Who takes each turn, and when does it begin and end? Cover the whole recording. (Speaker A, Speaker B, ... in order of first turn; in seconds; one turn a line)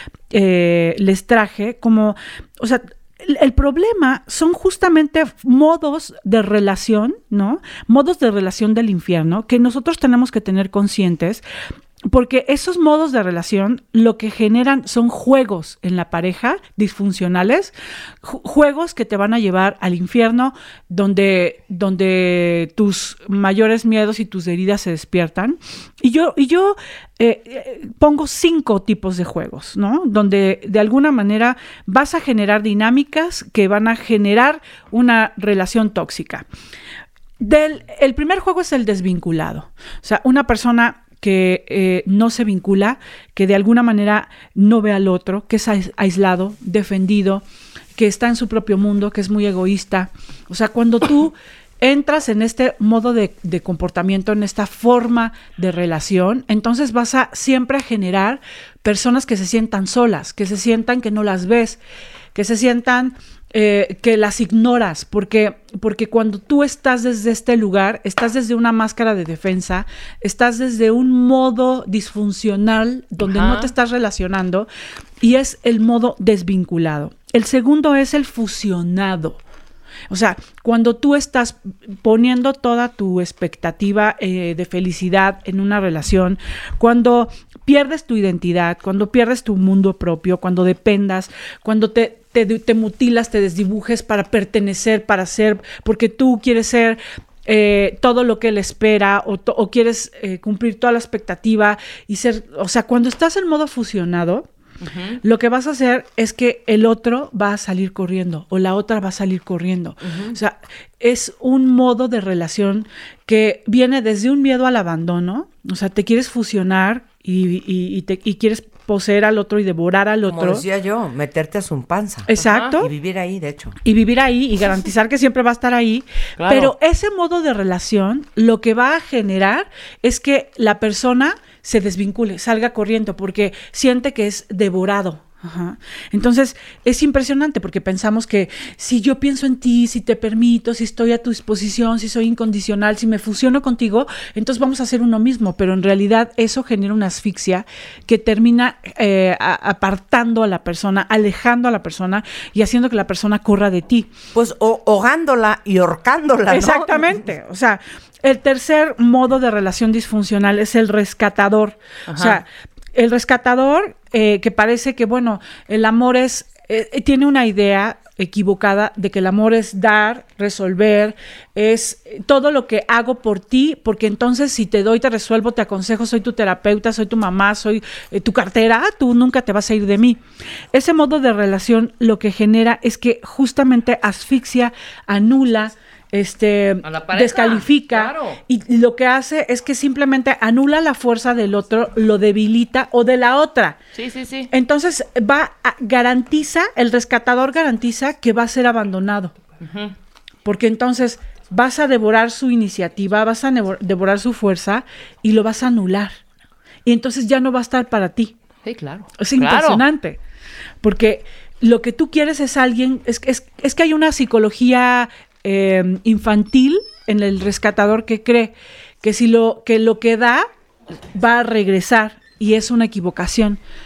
Speaker A: 0.3-11.4
Speaker A: 12.1-36.5
Speaker A: 37.4-47.4
Speaker A: 48.0-61.8
Speaker A: 62.4-74.7
Speaker B: 73.2-73.7
Speaker A: 75.2-79.4
Speaker A: 80.1-104.5
Speaker B: 104.8-105.2
Speaker A: 105.2-120.6
Speaker C: 110.0-110.4
Speaker C: 120.3-123.8
Speaker A: 122.3-122.9
Speaker B: 122.4-122.7
Speaker A: 123.8-154.1
Speaker B: 126.4-126.7
Speaker C: 154.3-157.2
Speaker A: 156.5-180.2
Speaker B: 162.1-162.4
Speaker A: 180.7-193.8
Speaker B: 186.8-188.4
Speaker B: 193.9-194.5
Speaker A: 194.5-199.3
Speaker B: 199.6-199.9
Speaker A: 200.4-206.2
Speaker A: 206.8-208.3
Speaker B: 208.7-209.8
Speaker A: 209.2-210.2
Speaker A: 210.8-220.5
Speaker A: 221.1-223.6